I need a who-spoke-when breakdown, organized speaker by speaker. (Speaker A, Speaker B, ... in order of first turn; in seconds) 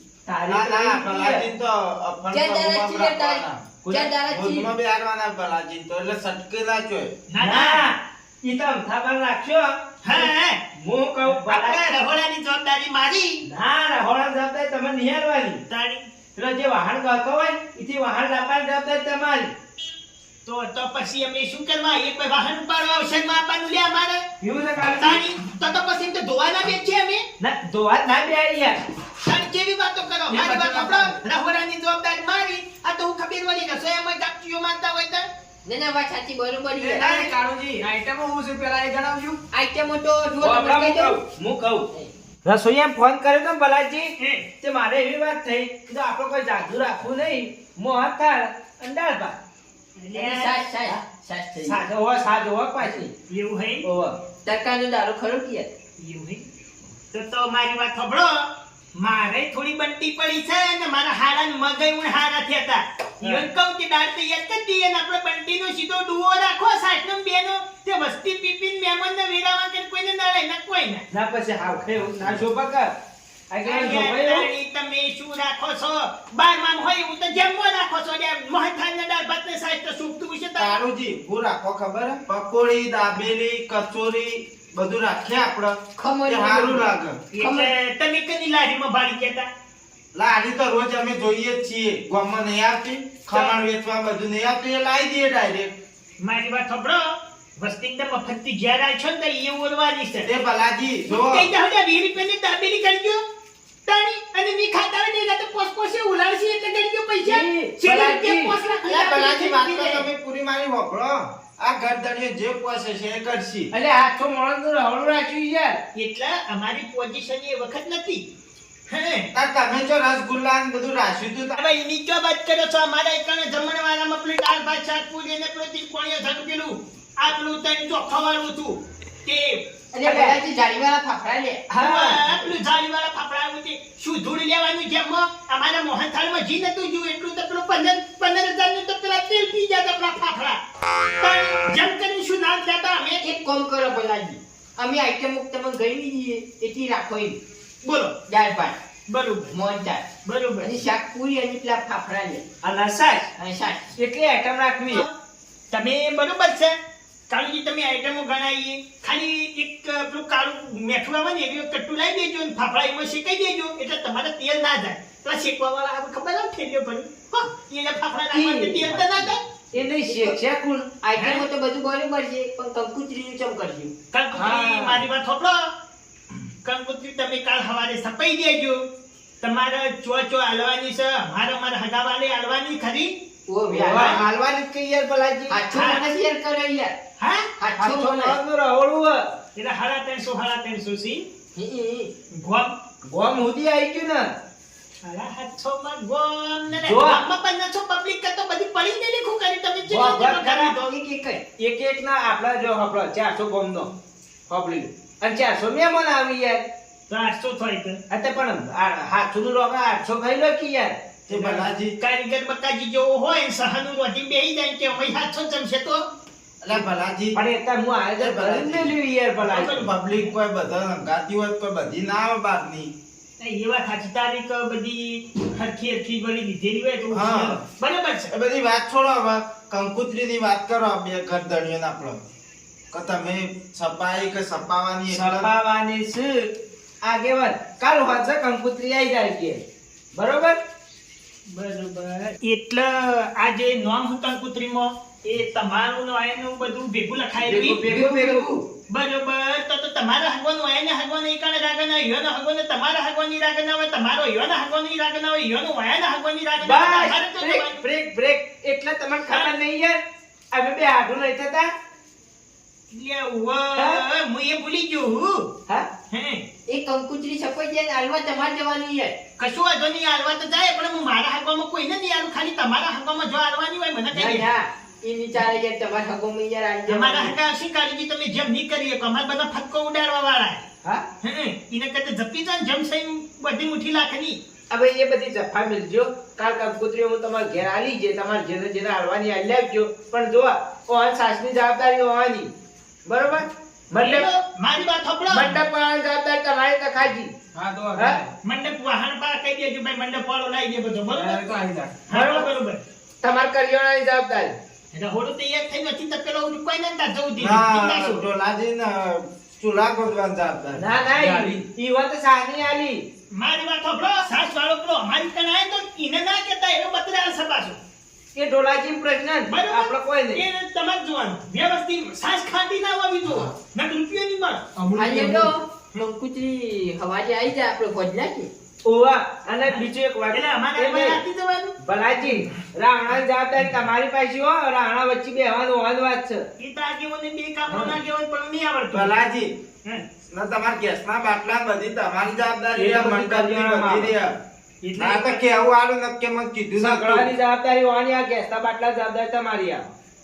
Speaker A: 0.2-1.4, 3.8-4.1, 7.4-11.8, 13.4-15.6, 16.4-19.5, 24.4-25.2, 27.4-28.8, 40.4-41.9, 42.4-49.4, 51.7-53.1, 53.8-54.1, 71.1-72.9, 73.5-74.5, 107.2-108.5, 113.7-115.8, 130.0-130.4, 131.7-132.5, 152.6-153.3, 153.9-155.0, 168.3-169.0, 169.7-170.9, 174.5-174.8, 183.7-185.6, 187.8-189.2, 193.0-194.2, 196.8-197.2, 199.9-200.8, 201.6-203.9, 204.5-206.6, 208.1-211.7, 217.3-219.8, 235.1-236.5, 237.0-239.6, 240.1-240.6, 247.4-248.5, 256.6-260.0, 260.5-261.7, 263.8-264.0, 284.7-292.5, 293.1-294.3, 295.3-297.3, 302.1-302.5, 303.2-304.5, 310.8-313.0, 318.3-320.4, 328.8-331.2, 331.8-336.4, 342.8-344.1, 346.8-349.9
Speaker B: 0.5-3.7, 4.2-7.1, 80.6-87.2, 90.1-95.8, 100.2-101.5, 108.9-113.7, 119.3-121.5, 211.3-211.9, 216.6-217.4, 218.2-218.9, 219.6-222.9, 227.1-227.6, 228.3-232.2, 232.9-235.5, 307.4-310.9, 338.9-339.6, 340.3-344.3, 345.0-347.3
Speaker C: 2.3-4.7, 35.6-37.3, 39.5-41.1, 50.1-51.8, 54.4-55.7, 86.0-87.7, 129.9-131.6, 143.2-147.4, 148.3-148.8, 149.5-150.0, 150.6-152.4, 153.4-153.9, 170.1-170.3, 171.0-173.9, 183.5-184.2, 185.5-186.9, 187.6-188.4, 191.6-192.1, 247.7-248.6, 266.7-269.1, 274.3-277.3, 324.9-328.5
Speaker D: 7.3-7.8, 10.0-10.6, 11.2-13.4, 15.7-16.1, 20.4-24.2, 24.9-27.2, 29.2-35.2, 44.2-44.5, 50.0-50.6, 53.3-53.8, 56.0-56.4, 57.1-71.0, 73.6-80.8, 87.3-89.5, 93.3-93.6, 96.2-100.3, 101.1-103.2, 103.9-110.1, 115.9-118.2, 118.9-119.3, 121.5-129.6, 131.8-140.6, 141.2-143.2, 147.8-148.1, 149.1-149.5, 150.2-150.8, 155.7-156.7, 157.3-169.4, 171.2-171.4, 174.1-175.6, 176.6-178.8, 179.4-183.2, 183.9-184.2, 185.7-186.0, 187.2-187.5, 189.5-191.2, 192.3-192.8, 195.0-200.9, 207.1-208.0, 212.0-216.0, 219.5-220.3, 223.4-228.3, 241.5-247.8, 248.9-257.8, 262.9-265.5, 266.1-266.4, 269.4-274.5, 276.9-280.6, 281.2-284.4, 294.0-295.6, 298.4-301.4, 302.1-302.8, 304.9-308.2, 313.3-317.8, 319.5-324.6, 329.7-331.8, 336.6-339.2, 344.8-345.4
Speaker E: 30.3-31.1, 36.8-39.4, 297.5-298.3, 301.1-302.0, 324.8-325.5